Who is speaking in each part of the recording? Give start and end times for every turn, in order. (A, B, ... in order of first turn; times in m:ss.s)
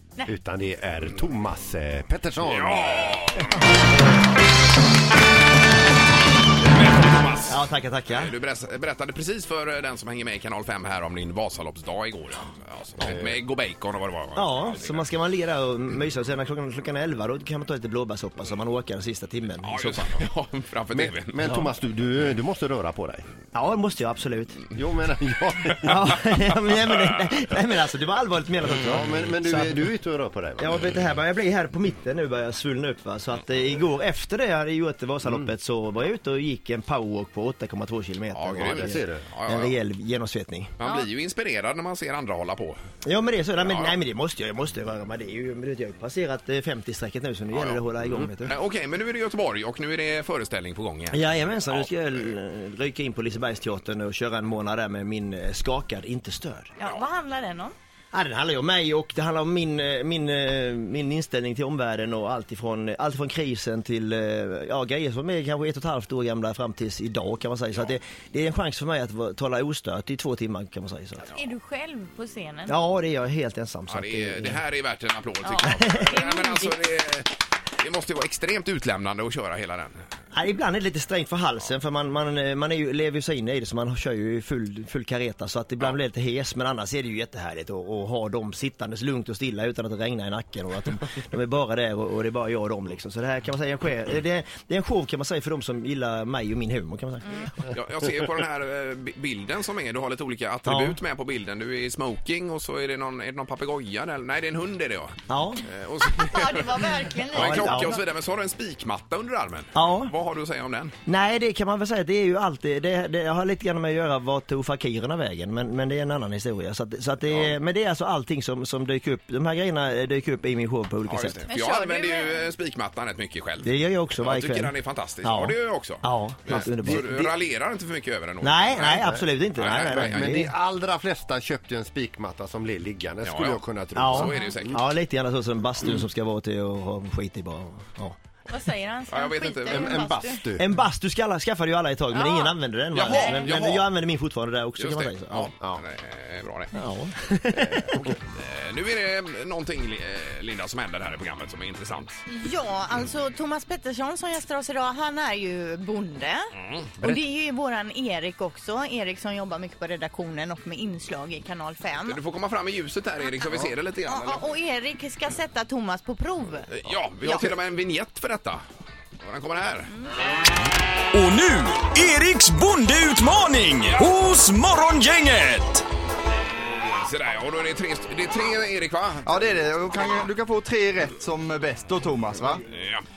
0:00.3-0:03.2 A
0:02.4-0:03.8 B
0:06.6-0:15.0 B
0:07.5-0:08.3 C
0:13.0-0:13.4 A
0:14.4-0:20.1 C
0:19.6-0:21.4 B
0:20.9-0:23.3 A
0:21.4-0:21.7 C
0:23.5-0:24.6 C
0:24.7-0:26.1 A
0:25.8-0:29.9 C
0:28.8-0:30.8 A
0:30.6-0:40.7 C
0:38.3-0:39.8 B
0:38.6-0:39.2 A
0:40.8-0:42.8 B
0:40.8-0:41.1 D
0:43.0-0:48.6 C
0:43.6-0:44.0 B
0:47.5-0:47.8 B
0:48.4-0:51.9 B
0:51.1-0:56.7 C
0:56.8-0:57.7 D
0:58.1-1:11.2 C
1:11.2-1:12.7 D
1:12.7-1:14.6 C
1:13.9-1:20.0 B
1:15.4-1:16.8 D
1:15.7-1:16.1 C
1:20.3-1:37.7 C
1:37.7-1:46.7 B
1:40.7-1:41.0 C
1:45.3-1:45.6 C
1:46.2-1:48.0 D
1:47.3-1:47.9 C
1:47.3-1:50.9 B
1:49.7-1:50.1 C
1:51.1-2:01.4 C
1:57.2-1:57.5 B
2:01.0-2:09.0 B
2:01.5-2:02.5 D
2:03.6-2:07.3 C
2:08.4-2:10.5 C
2:08.8-2:14.8 A
2:09.6-2:10.4 B
2:13.2-2:14.8 B
2:14.0-2:18.2 C
2:18.5-2:20.4 D
2:19.1-2:19.9 B
2:19.7-2:20.7 A
2:20.6-2:25.5 C
2:22.1-2:23.5 D
2:22.9-2:23.9 B
2:24.8-2:26.8 B
2:26.8-2:28.1 C
2:27.6-2:32.2 B
2:32.3-2:36.5 D
2:36.5-2:37.1 B
2:37.0-2:42.2 D
2:42.0-2:44.4 B
2:43.2-2:47.5 D
2:46.7-2:48.6 B
2:49.2-2:49.9 B
2:51.1-2:55.8 E
2:56.8-2:59.4 B
2:59.2-3:02.6 F
3:02.7-3:03.0 B